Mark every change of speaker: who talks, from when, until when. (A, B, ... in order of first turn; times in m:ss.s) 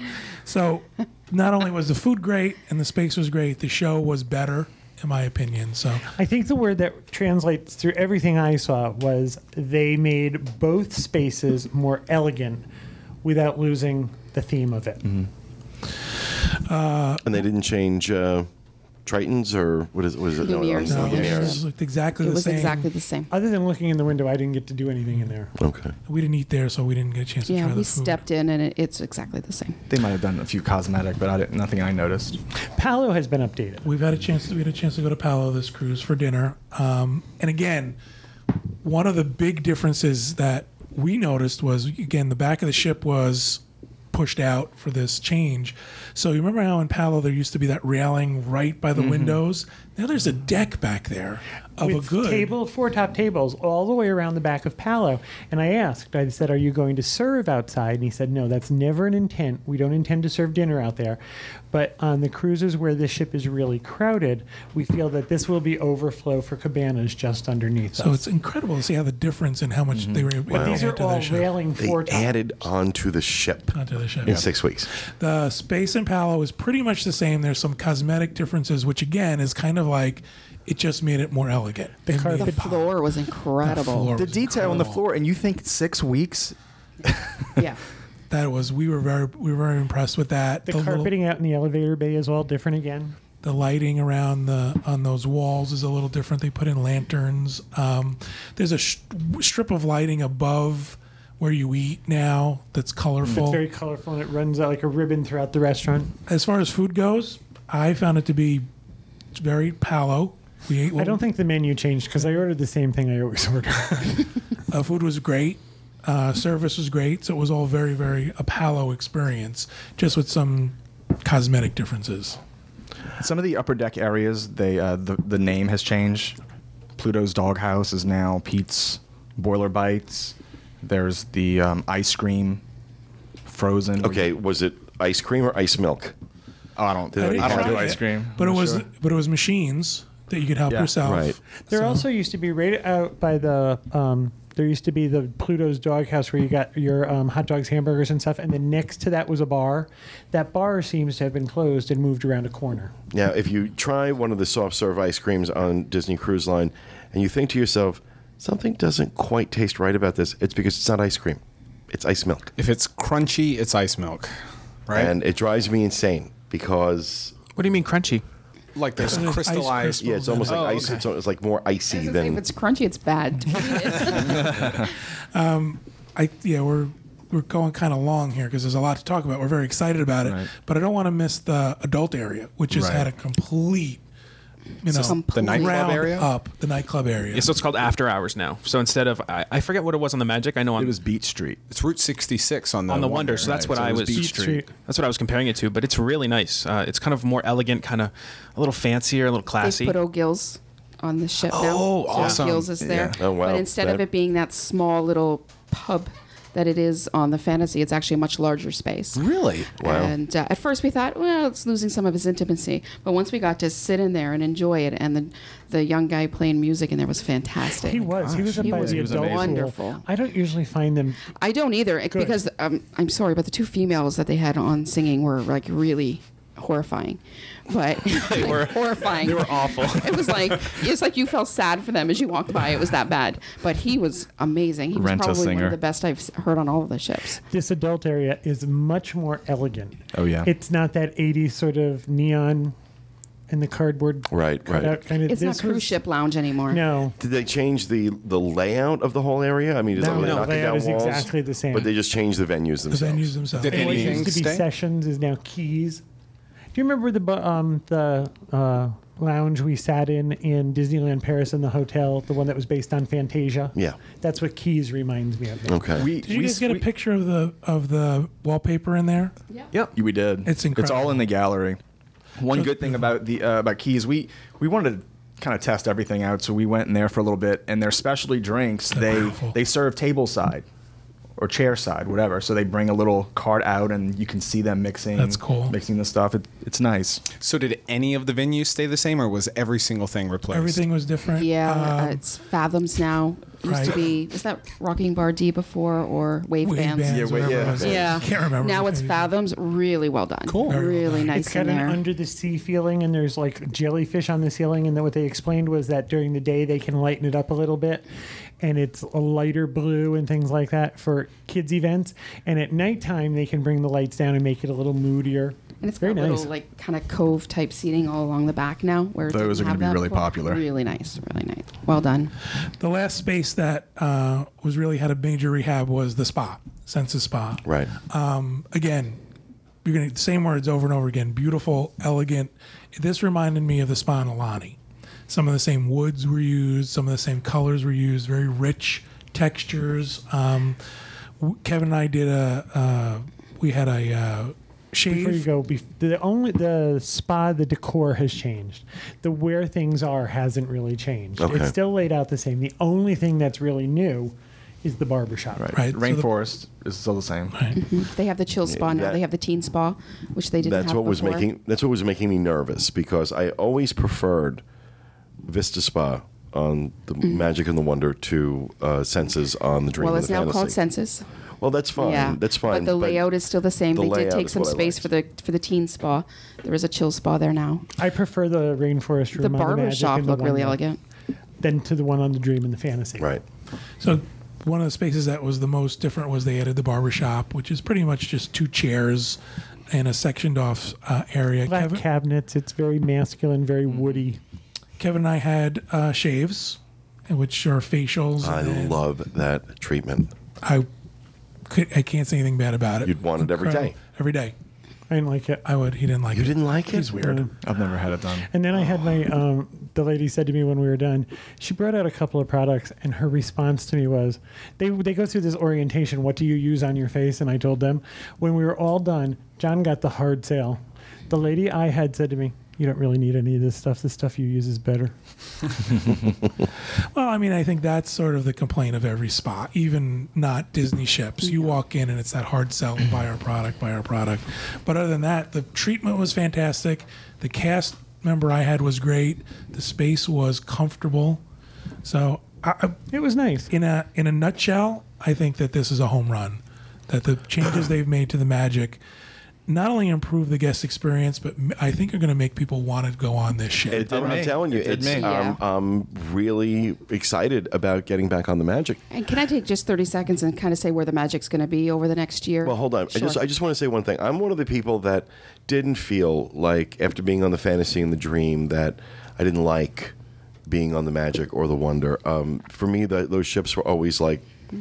0:00.4-0:06.1 A
0:06.1-0:12.7 B
0:13.2-0:15.1 B
0:16.5-0:17.3 A
0:17.2-0:18.5 C
0:19.1-0:21.6 C
0:20.4-0:21.7 D
0:20.8-0:22.9 A
0:22.2-0:23.3 D
0:23.3-0:25.5 B
0:25.6-0:25.9 C
0:26.1-0:28.2 A
0:27.5-0:29.8 D
0:29.9-0:32.4 E
0:32.7-0:33.9 B
0:33.8-0:38.0 A
0:38.8-0:52.5 A
0:49.0-0:49.4 E
0:51.8-1:01.2 B
1:01.7-1:08.2 B
1:08.0-1:11.5 A
1:09.9-1:10.3 E
1:10.5-1:10.8 C
1:10.6-1:12.4 B
1:11.8-1:14.9 C
1:13.7-1:14.4 A
1:15.1-1:23.0 A
1:22.1-1:22.7 B
1:22.4-1:24.2 D
1:23.6-1:25.0 A
1:24.2-1:27.6 E
1:28.3-1:31.1 A
1:30.7-1:33.2 B
1:33.4-1:43.6 A
1:43.2-1:43.5 E
1:43.3-1:46.1 B
1:46.3-1:48.7 A
1:49.3-1:51.2 A
1:51.0-1:54.2 B
1:54.7-2:02.4 A
2:03.2-2:06.4 E
2:07.0-2:12.6 E
2:13.5-2:14.3 E
2:14.0-2:16.1 C
2:16.8-2:18.9 E
2:17.1-2:18.0 C
2:17.2-2:22.0 A
2:20.7-2:21.0 E
2:21.0-2:21.4 C
2:21.7-2:32.9 B
2:33.1-2:42.5 C
2:42.6-2:44.4 F
2:44.9-2:45.1 F
2:44.9-2:47.4 C
2:47.6-2:48.2 G
2:48.8-2:50.9 F
2:49.0-2:51.0 A
2:50.0-2:52.4 C
2:50.5-2:51.0 G
2:51.9-2:54.6 D
2:53.7-2:54.6 A
2:54.2-2:54.8 E
2:55.3-3:04.0 A
3:00.2-3:00.5 E
3:02.7-3:03.1 E
3:04.8-3:07.5 A
3:04.9-3:06.3 F
3:04.9-3:06.1 D
3:07.3-3:11.0 G
3:10.8-3:11.6 E
3:11.7-3:14.0 F
3:12.9-3:20.0 G
3:13.4-3:14.3 E
3:14.1-3:14.7 B
3:19.6-3:29.2 D
3:21.5-3:22.5 G
3:21.8-3:22.7 F
3:22.8-3:23.2 E
3:23.2-3:24.0 C
3:29.2-3:29.7 G
3:29.8-3:40.0 D
3:29.8-3:30.1 C
3:37.8-3:41.3 B
3:38.1-3:39.6 E
3:41.4-3:57.4 D
3:42.1-3:42.4 B
3:48.2-3:50.6 G
3:54.9-3:55.8 E
3:57.5-4:02.8 B
4:00.1-4:00.5 E
4:03.5-4:06.0 B
4:04.3-4:05.0 C
4:05.2-4:06.8 D
4:06.7-4:07.2 B
4:07.2-4:13.4 C
4:10.0-4:11.9 B
4:10.2-4:10.5 G
4:12.9-4:14.3 A
4:13.5-4:14.7 F
4:13.7-4:16.0 B
4:13.9-4:14.2 E
4:16.7-4:26.0 B
4:25.7-4:26.0 C
4:26.0-4:26.9 E
4:26.1-4:29.3 A
4:29.7-4:31.8 E
4:30.4-4:31.3 A
4:32.4-4:40.6 E
4:32.5-4:33.2 A
4:38.9-4:39.6 A
4:41.4-4:47.2 E
4:45.2-4:45.8 A
4:47.4-4:50.8 F
4:50.5-4:52.2 A
4:51.3-5:02.0 D
4:53.6-4:54.1 A
4:56.6-4:59.3 A
4:57.0-4:58.2 E
5:00.5-5:00.8 F
5:00.6-5:01.4 A
5:01.3-5:08.0 B
5:08.6-5:16.5 B
5:15.8-5:22.3 D
5:19.3-5:20.6 E
5:22.8-5:29.2 A
5:27.6-5:27.9 C
5:29.8-5:34.8 A
5:35.3-5:40.8 A
5:41.4-5:45.4 A
5:45.1-5:55.7 B
5:51.4-5:51.7 C
5:55.6-5:57.7 E
5:55.8-5:56.3 A
5:57.8-6:01.5 D
5:58.7-5:59.2 C
6:00.6-6:04.6 C
6:05.4-6:10.8 C
6:10.0-6:11.3 D
6:11.6-6:13.3 C
6:12.0-6:17.9 D
6:13.9-6:15.1 C
6:18.0-6:20.8 B
6:19.4-6:21.0 D
6:21.6-6:23.3 B
6:24.0-6:29.4 A
6:29.9-6:32.0 A
6:31.7-6:34.4 B
6:35.0-6:39.0 A
6:38.4-6:40.3 C
6:40.6-6:40.9 A
6:41.7-6:44.5 A
6:43.0-6:44.0 C
6:45.1-6:45.6 B
6:45.6-6:47.5 A
6:46.3-6:47.2 C
6:47.2-6:47.5 B
6:47.6-6:48.5 E
6:48.5-7:05.2 B
7:07.1-7:21.4 A
7:22.0-7:23.0 A
7:23.1-7:23.7 B
7:23.7-7:29.0 A
7:29.7-7:34.2 A
7:33.9-7:35.3 E
7:33.9-7:39.0 C
7:35.1-7:35.6 D
7:39.1-7:43.4 D
7:42.6-7:50.1 C
7:50.7-7:54.5 C